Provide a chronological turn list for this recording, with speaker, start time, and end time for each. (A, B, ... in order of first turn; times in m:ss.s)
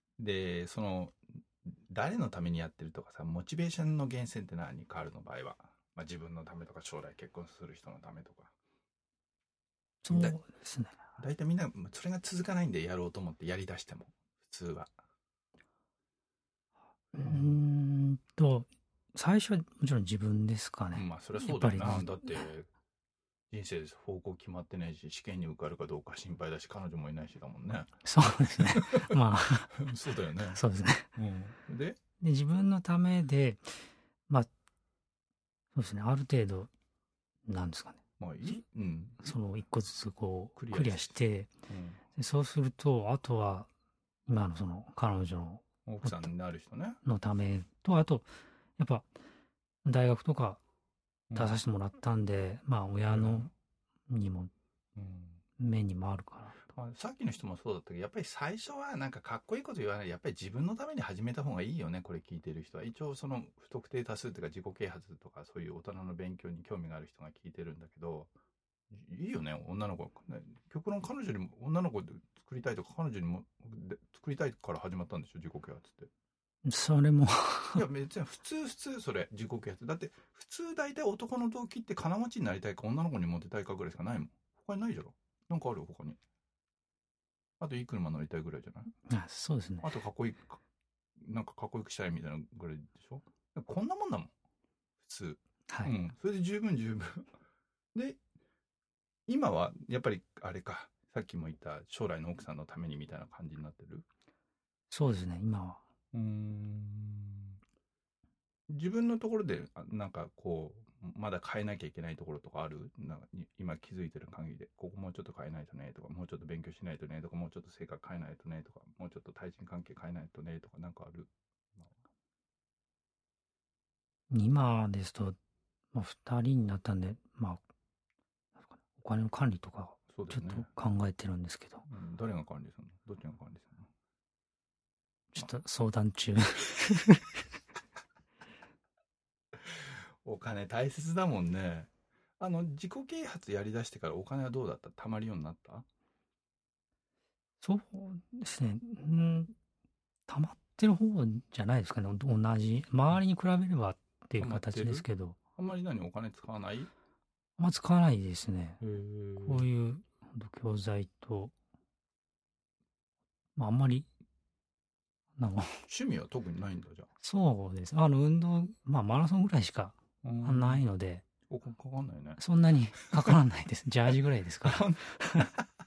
0:00.2-0:08.5 A
0:10.0-0:11.0 B
0:10.1-0:10.4 A
0:11.2-0:14.9 A
0:17.1-0:22.3 B
0:17.2-0:17.6 A
0:20.9-0:22.7 A
0:23.5-0:29.2 A
0:28.0-0:29.8 B
0:29.7-0:30.6 A
0:30.5-0:31.1 B
0:31.2-0:32.0 A
0:32.2-0:33.8 B
0:35.8-0:36.7 B
0:37.5-0:38.6 B
0:38.2-0:39.3 A
0:39.2-0:41.5 B
0:40.6-0:42.0 A
0:42.2-0:43.7 B
0:44.3-0:46.3 B
0:45.9-0:47.0 A
0:47.0-0:49.1 B
0:49.8-0:50.6 B
0:51.3-0:51.6 A
0:51.4-0:53.5 B
0:53.1-0:53.5 A
0:54.1-0:54.5 B
0:55.0-0:55.4 A
0:55.6-0:56.6 B
0:56.6-1:08.3 A
1:08.9-1:16.1 A
1:16.6-1:17.8 B
1:17.8-1:26.2 A
1:27.6-1:28.9 A
1:29.1-1:29.9 B
1:29.8-1:30.6 A
1:31.2-1:34.3 A
1:35.0-1:37.3 A
1:35.7-1:35.9 B
1:37.9-1:38.2 A
1:39.3-1:44.0 A
1:44.9-1:45.8 B
1:46.1-1:47.6 A
1:48.7-2:01.9 A
2:04.3-2:05.4 B
2:05.9-2:07.6 B
2:09.0-2:11.9 B
2:10.1-2:10.7 A
2:11.9-2:13.9 A
2:15.3-2:17.4 B
2:19.6-2:25.8 A
2:27.6-2:29.5 B
2:30.3-2:35.4 B
2:34.4-2:36.9 A
2:37.6-2:38.8 B
2:38.8-2:39.7 A
2:39.4-2:41.5 B
2:43.6-2:44.1 B
2:45.4-2:45.8 B
2:45.9-2:47.1 A
2:47.2-2:51.2 B
2:50.2-2:50.9 A
2:51.5-2:52.4 A
2:52.4-2:55.5 B
2:54.6-2:55.6 A